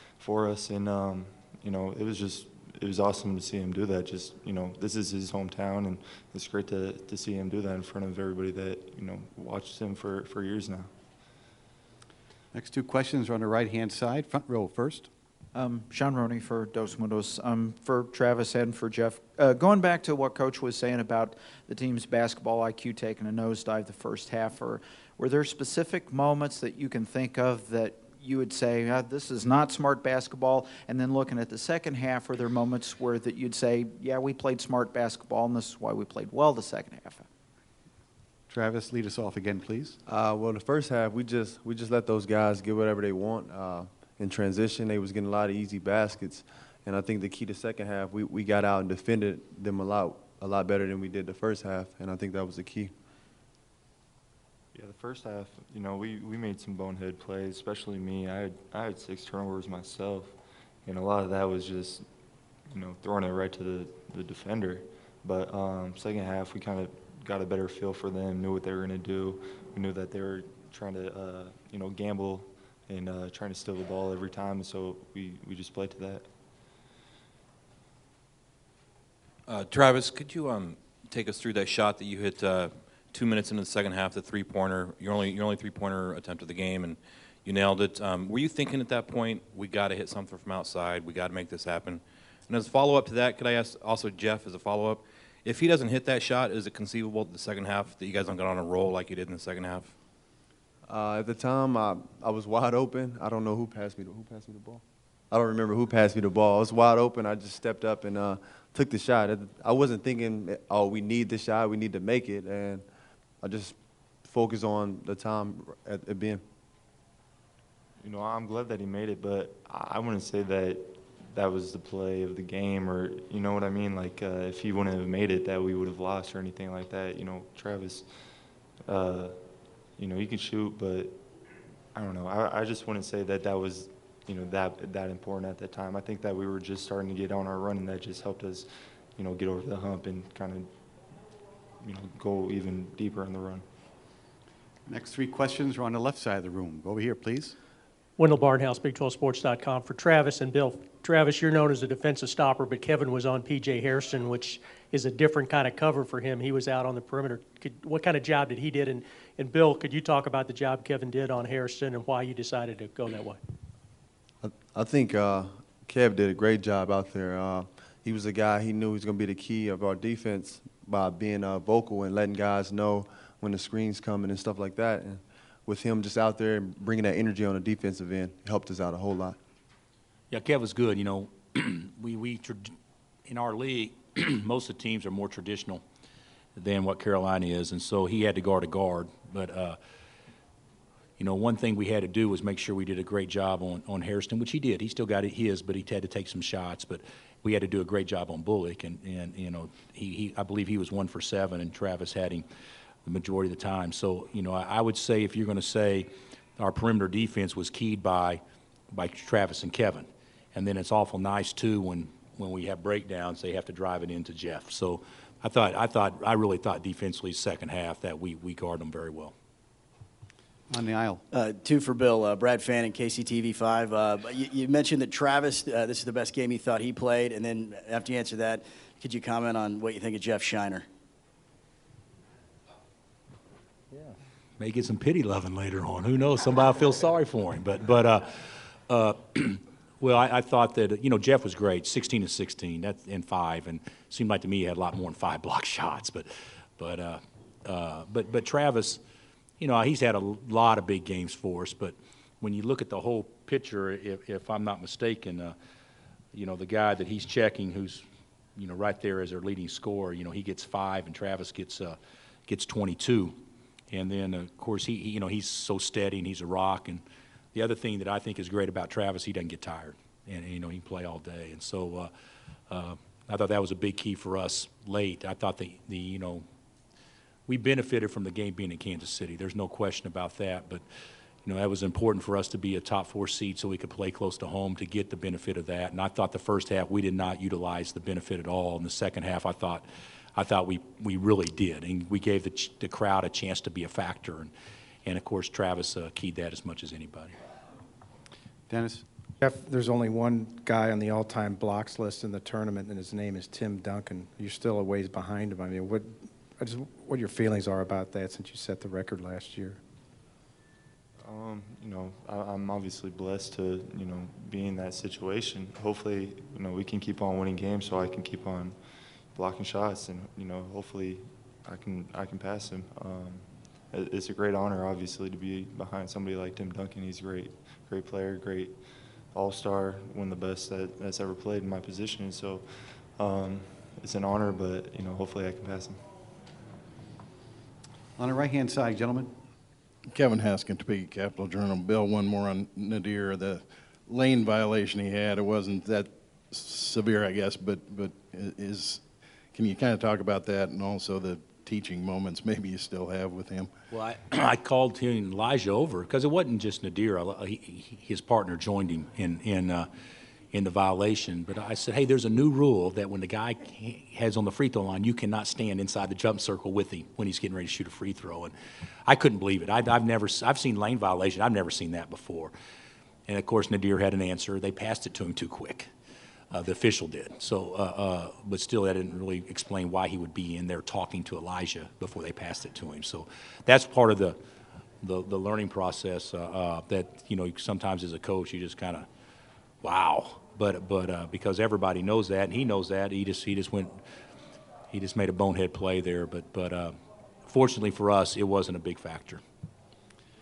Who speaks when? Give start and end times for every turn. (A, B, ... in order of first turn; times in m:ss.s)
0:00.2-0:10.9 A
0:12.5-0:15.1 B
0:15.5-0:37.2 C
0:38.5-0:40.0 B
0:40.1-0:52.9 D
0:54.7-1:00.3 A
1:00.8-1:02.0 A
1:02.7-1:16.2 A
1:19.5-1:39.9 E
1:40.9-1:52.8 D
1:53.4-1:56.4 D
1:58.0-2:08.0 A
2:08.9-2:09.3 A
2:10.0-2:11.2 A
2:11.9-2:20.7 A
2:21.8-2:23.6 A
2:24.9-2:27.6 B
2:28.2-2:43.4 F
2:44.4-2:59.4 D
3:00.3-3:02.7 G
3:03.2-3:05.8 G
3:06.6-3:09.8 G
3:11.2-3:22.4 G
3:23.0-3:28.4 G
3:28.9-3:39.3 G
3:40.7-3:41.2 B
3:41.3-3:50.9 H
3:53.9-3:58.3 G
3:58.9-4:06.3 G
4:06.8-4:09.0 G
4:09.6-4:15.5 G
4:16.3-4:18.0 G
4:18.6-4:23.3 G
4:23.9-4:27.0 G
4:27.5-4:32.1 G
4:32.7-4:36.4 G
4:37.5-4:40.8 G
4:41.4-4:54.5 G
4:55.0-4:57.3 G
4:58.7-4:59.0 B
4:59.4-5:09.8 I
5:11.2-5:18.8 A
5:19.3-5:28.8 A
5:29.3-5:36.0 A
5:38.2-5:39.3 B
5:40.1-5:49.0 J
5:49.5-5:53.7 J
5:53.9-5:59.9 G
6:00.5-6:08.5 G
6:09.1-6:12.5 G
6:13.3-6:15.9 G
6:16.5-6:24.4 G
6:25.0-6:29.1 G
6:29.8-6:33.9 G
6:34.9-6:36.9 G
6:37.4-6:39.4 G